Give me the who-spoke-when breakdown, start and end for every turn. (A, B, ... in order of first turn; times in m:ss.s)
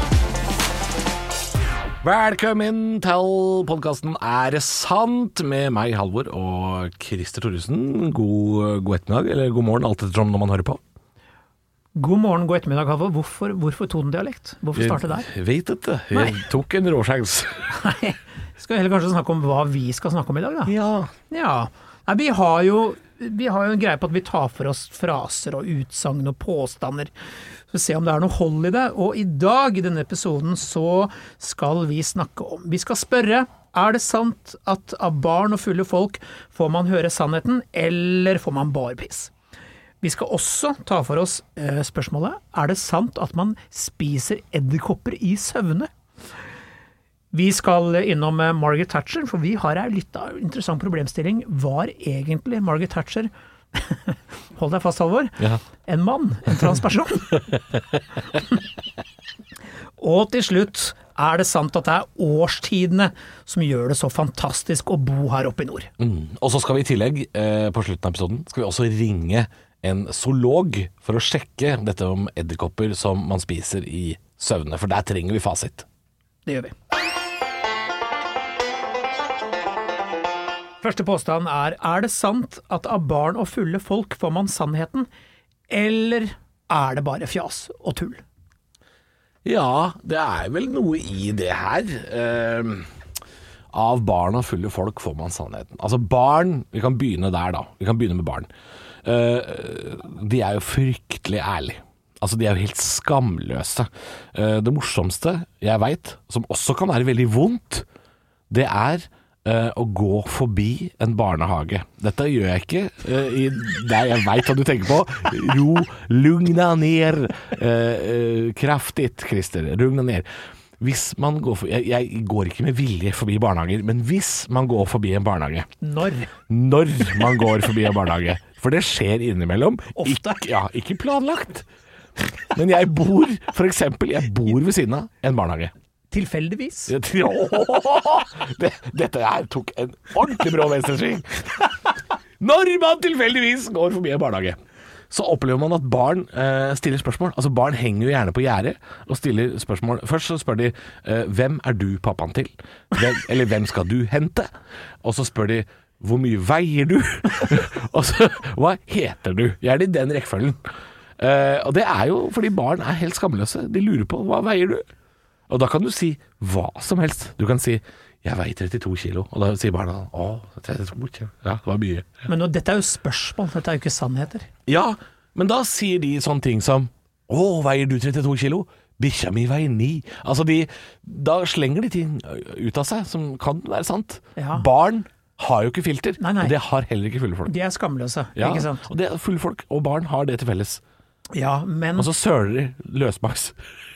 0:02.0-0:10.8 A
0:12.0-0:15.3 B
0:14.8-0:17.8 A
0:16.1-0:16.4 B
0:17.7-0:20.7 B
0:20.7-0:21.1 A
0:21.3-0:27.1 B
0:27.7-0:39.3 B
0:40.0-0:45.9 B
0:47.3-0:57.4 B
1:00.0-1:05.9 B
1:06.0-1:15.9 A
1:16.5-1:16.7 B
1:20.8-1:25.1 B
1:25.7-1:28.2 B
1:29.4-1:32.9 A
1:33.7-1:38.5 A
1:39.0-1:47.9 A
1:48.5-2:00.3 A
2:00.8-2:05.7 A
2:05.8-2:06.3 B
2:06.5-2:11.7 A
2:10.0-2:10.4 B
2:12.2-2:15.7 A
2:16.1-2:17.0 B
2:16.9-2:21.7 A
2:22.4-2:34.5 A
2:35.0-2:40.6 A
2:41.2-2:44.8 A
2:45.5-2:52.3 A
2:52.3-2:54.5 B
2:54.7-3:07.5 A
3:04.4-3:04.7 B
3:06.2-3:06.6 B
3:07.5-3:08.8 B
3:08.4-3:10.8 A
3:11.3-3:12.1 B
3:12.0-3:13.6 A